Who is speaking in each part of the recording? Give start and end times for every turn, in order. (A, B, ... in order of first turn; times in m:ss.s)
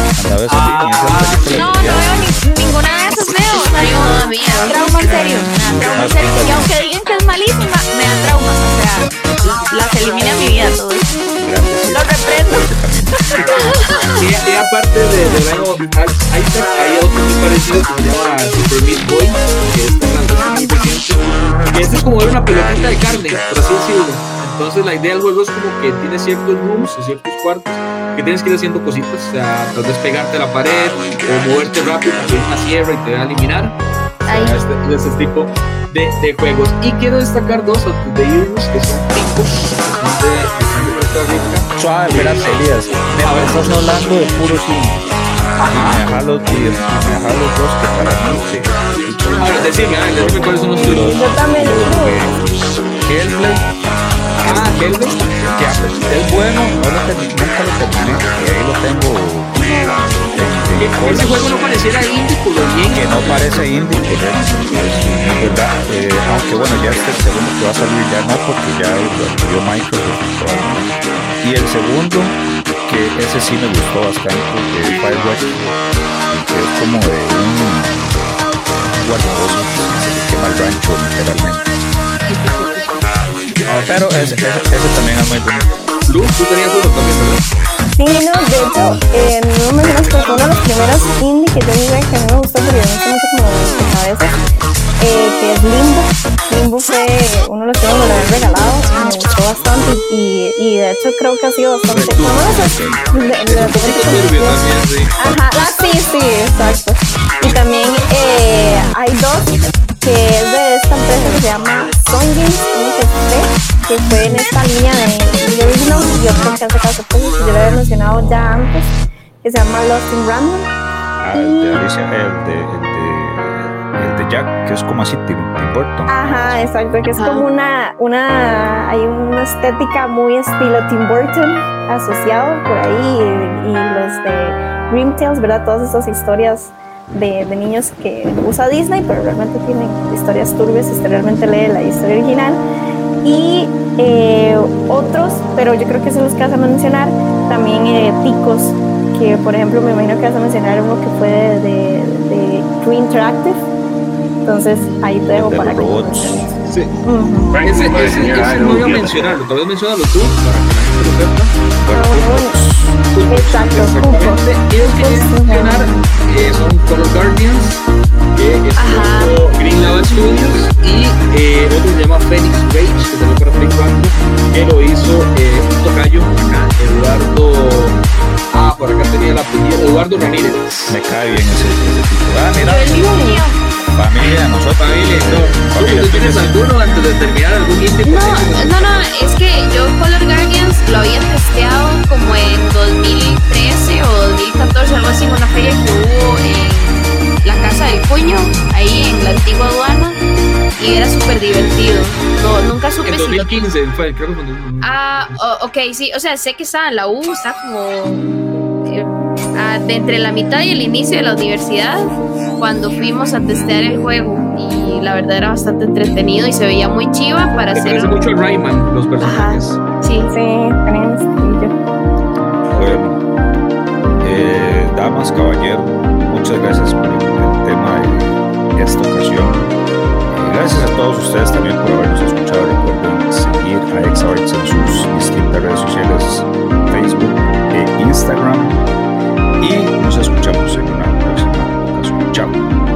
0:00.1-0:02.2 A
0:00.5-0:02.0 B
0:01.5-0:11.2 C
0:03.7-0:05.2 D
0:05.9-0:06.7 A
0:11.4-0:13.5 A
0:11.9-0:12.7 C
0:13.4-0:14.0 C
0:14.2-0:33.8 B
0:34.3-0:34.6 D
0:34.4-0:42.6 B
0:41.8-0:45.0 A
0:43.2-0:43.7 B
0:45.6-0:46.0 B
0:45.6-0:52.4 A
0:49.4-0:51.1 B
0:51.0-0:52.3 E
0:53.0-0:53.7 A
0:54.4-0:55.3 B
0:55.5-1:01.5 A
1:00.8-1:03.5 B
1:02.9-1:18.1 A
1:18.9-1:21.7 A
1:22.3-1:22.9 B
1:23.6-1:24.4 B
1:23.8-1:25.8 A
1:26.1-1:27.4 B
1:28.0-1:34.4 E
1:35.0-1:44.6 E
1:41.9-1:43.0 B
1:42.0-1:43.0 A
1:43.5-1:45.2 B
1:45.2-2:00.7 E
2:01.2-2:06.7 A
2:01.3-2:01.8 E
2:06.1-2:22.6 E
2:07.1-2:07.5 D
2:23.2-2:33.6 E
2:34.5-2:36.5 E
2:35.4-2:36.5 A
2:36.6-2:36.9 B
2:37.1-2:37.6 E
2:37.5-2:41.5 B
2:37.7-2:39.4 A
2:41.8-2:43.0 A
2:41.9-2:42.6 E
2:43.1-2:47.8 B
2:43.3-2:46.0 E
2:48.4-2:58.0 B
2:48.8-2:49.4 D
2:58.5-3:01.0 B
3:00.9-3:03.1 A
3:02.9-3:03.4 E
3:03.0-3:03.6 C
3:03.9-3:06.5 A
3:04.2-3:09.1 B
3:08.0-3:20.2 D
3:20.8-3:23.6 D
3:23.0-3:25.4 B
3:24.8-3:28.4 D
3:28.9-3:38.2 D
3:37.7-3:39.8 B
3:39.2-3:40.3 D
3:40.3-3:41.7 E
3:42.7-3:43.0 B
3:42.7-3:43.2 A
3:44.2-3:49.7 A
3:50.4-3:58.8 A
3:59.6-4:02.6 A